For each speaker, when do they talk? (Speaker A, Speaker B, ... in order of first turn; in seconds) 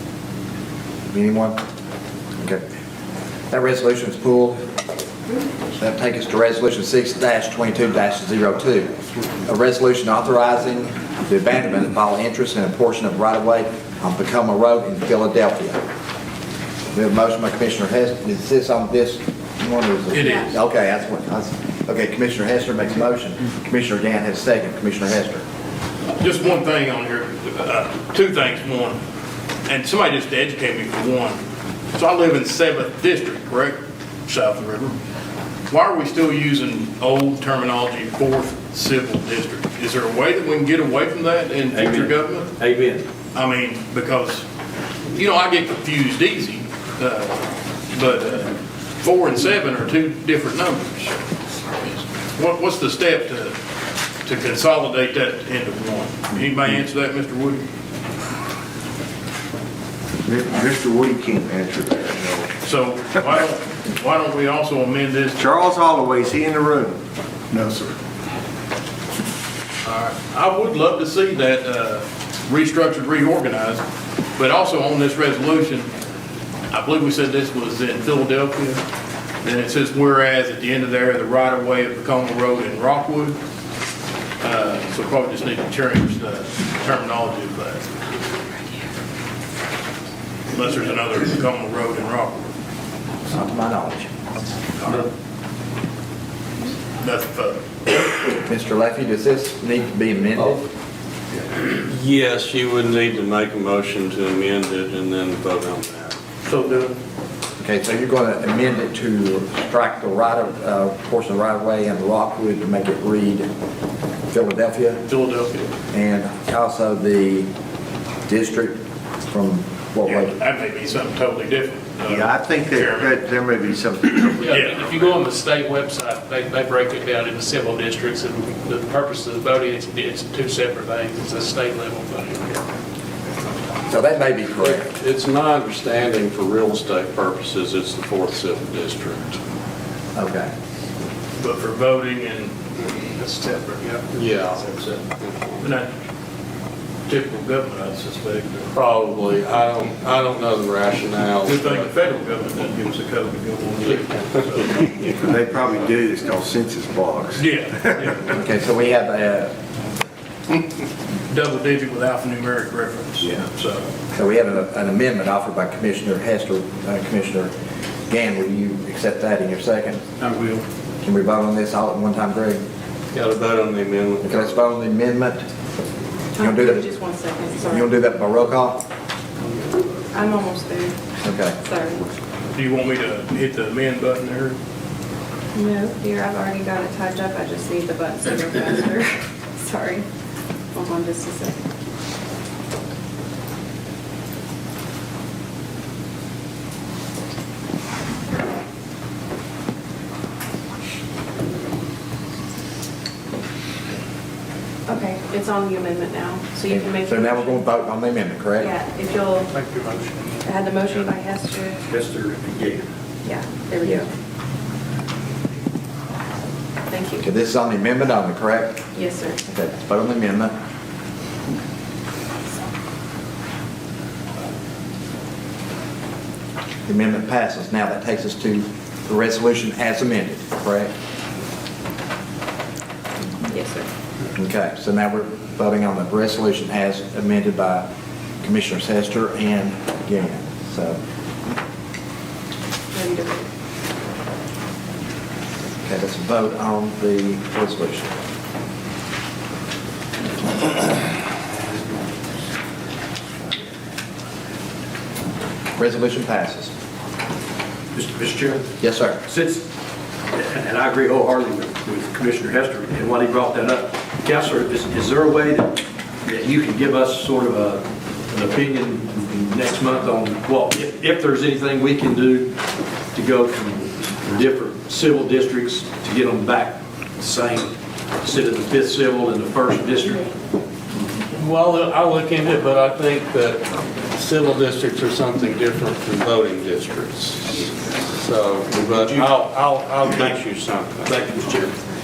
Speaker A: 1.1-1.6, 2.4-2.6, 3.5-4.6, 5.8-8.9, 9.4-15.8, 16.9-25.4, 93.3-94.1, 98.3-100.7, 107.6-113.5, 114.3-115.0, 115.9-117.5, 118.3-120.3, 133.9-134.9, 140.2-140.5, 158.3-159.5, 164.1-167.5, 168.1-170.1, 171.0-172.6, 174.2-175.4, 176.4-176.8, 177.7-178.8, 181.2-181.6, 206.7-208.7, 217.2-218.8, 219.5-220.5, 226.9-230.9, 234.3-237.9, 238.4-241.0, 245.8-248.2, 255.8-256.7, 258.8-259.2
Speaker B: 20.1-20.5, 26.2-29.0, 29.7-31.4, 31.9-35.0, 35.7-42.6, 43.3-44.5, 45.1-53.5, 54.2-57.6, 62.6-65.4, 69.8-73.8, 74.4-75.9, 76.7-78.8, 79.4-83.4, 84.4-87.9, 90.5-92.5, 94.8-95.0, 97.0-97.6, 115.1-115.7, 120.0-123.2, 124.5-125.2, 141.4-145.0, 145.6-145.9, 147.1-148.7, 151.4-155.2, 157.4-158.3, 161.3-163.9, 182.5-184.6
Speaker C: 20.1-20.5, 176.3-177.9, 180.1-181.0, 181.6-182.0, 185.6-190.1, 190.7-191.6, 204.9-207.6, 208.6-209.5, 210.4-211.8, 213.2-214.1, 216.9-217.2, 218.9-219.4, 233.5-233.9, 242.9-243.5
Speaker D: 41.7-43.1, 211.8-212.8, 257.9-258.7, 259.2-259.6, 260.4-272.5, 273.1-280.3
Speaker E: 60.2-62.5, 65.4-67.0, 67.5-67.9, 122.1-124.7, 155.2-158.2
Speaker F: 101.6-106.2, 134.6-139.4, 144.1-145.7, 148.7-151.9, 173.1-174.7, 281.4-291.7
Speaker G: 106.5-106.9, 124.4-132.7, 209.5-210.4